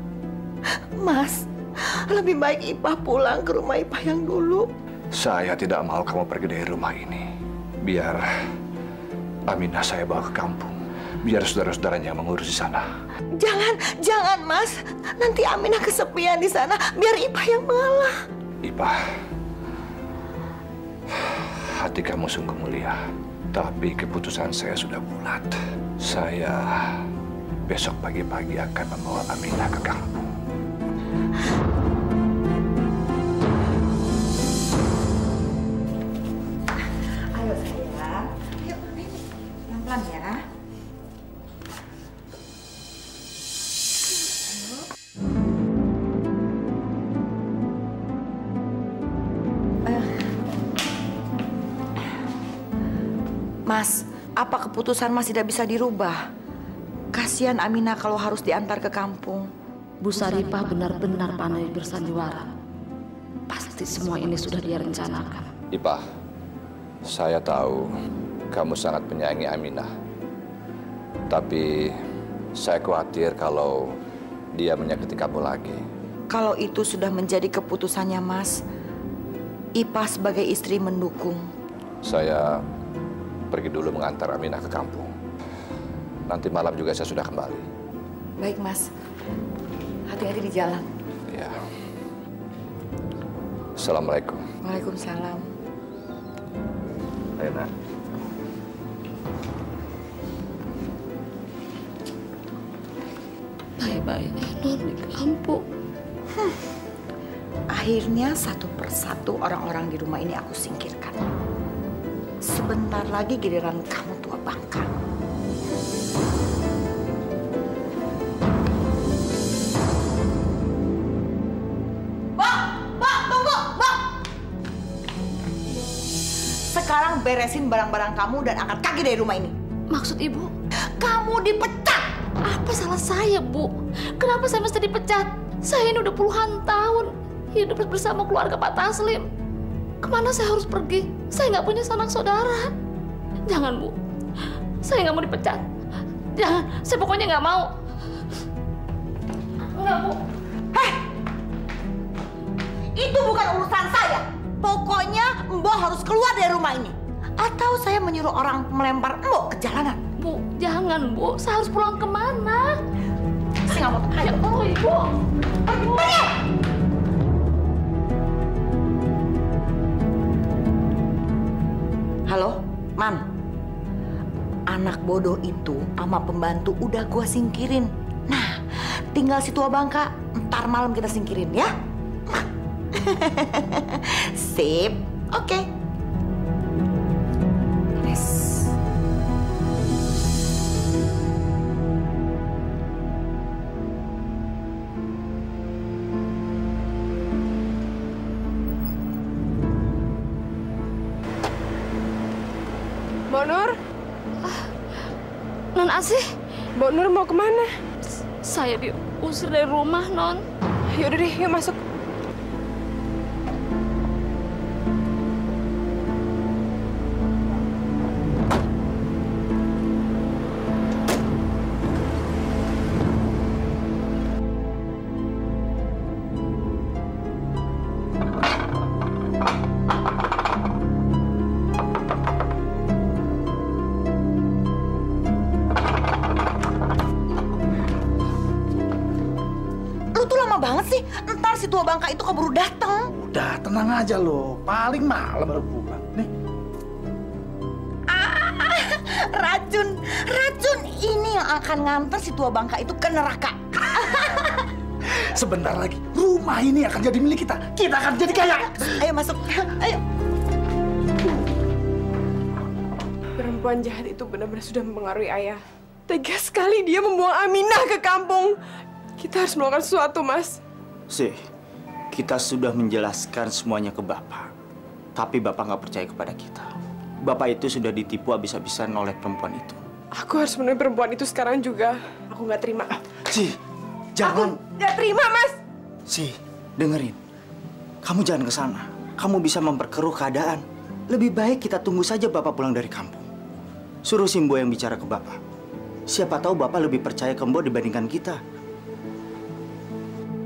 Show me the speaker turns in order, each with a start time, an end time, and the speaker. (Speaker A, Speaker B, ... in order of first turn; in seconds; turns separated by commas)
Speaker A: 1.0-4.7, Speaker B: 5.1-7.3, Speaker B: 7.8-8.2, Speaker B: 9.5-12.9, Speaker A: 13.4-18.2, Speaker B: 18.6-19.0, Speaker B: 21.1-23.0, Speaker B: 23.5-27.0, Speaker B: 27.7-30.3, Speaker A: 37.3-40.5, Speaker A: 49.9-50.1, Speaker A: 53.7-56.2, Speaker A: 57.1-59.5, Speaker C: 60.0-62.5, Speaker C: 63.5-65.5, Speaker B: 65.7-66.0, Speaker B: 67.1-67.9, Speaker B: 68.5-69.9, Speaker B: 71.3-72.0, Speaker B: 72.6-73.9, Speaker B: 74.5-75.8, Speaker A: 76.3-78.6, Speaker A: 79.8-81.5, Speaker B: 82.0-82.6, Speaker B: 83.5-85.1, Speaker B: 86.3-87.7, Speaker A: 88.4-88.9, Speaker A: 90.1-90.9, Speaker B: 91.3-91.6, Speaker B: 93.8-94.4, Speaker A: 94.6-95.5, Speaker B: 97.4-97.7, Speaker C: 103.8-105.6, Speaker A: 107.7-111.2, Speaker A: 112.5-114.9, Speaker A: 122.4-124.1, Speaker A: 126.7-129.5, Speaker C: 129.9-130.5, Speaker A: 131.0-132.1, Speaker C: 132.4-139.2, Speaker C: 140.0-142.7, Speaker C: 143.5-143.9, Speaker C: 144.8-145.6, Speaker C: 146.4-147.7, Speaker C: 149.7-150.2, Speaker A: 150.7-151.0, Speaker A: 152.9-160.0, Speaker C: 160.2-162.8, Speaker A: 163.7-164.7, Speaker C: 164.2-165.2, Speaker A: 165.7-166.3, Speaker C: 165.7-166.2, Speaker A: 172.3-173.2, Speaker A: 174.7-181.7, Speaker A: 182.9-185.7, Speaker A: 188.0-188.7, Speaker D: 203.3-203.8, Speaker C: 205.8-206.3, Speaker D: 206.8-207.7, Speaker C: 208.4-210.4, Speaker D: 210.9-211.8, Speaker A: 240.1-243.1, Speaker E: 243.1-246.3, Speaker A: 248.1-254.6, Speaker E: 255.1-259.0, Speaker A: 258.8-260.0, Speaker D: 263.4-268.6, Speaker D: 269.2-270.6, Speaker F: 271.1-271.4, Speaker F: 272.1-274.5, Speaker F: 275.2-276.7, Speaker F: 277.2-279.8, Speaker D: 280.2-282.9, Speaker F: 283.1-283.6, Speaker F: 284.1-284.6, Speaker D: 284.2-285.6, Speaker F: 286.1-287.2, Speaker F: 288.0-293.2, Speaker F: 294.1-295.4, Speaker F: 296.1-298.4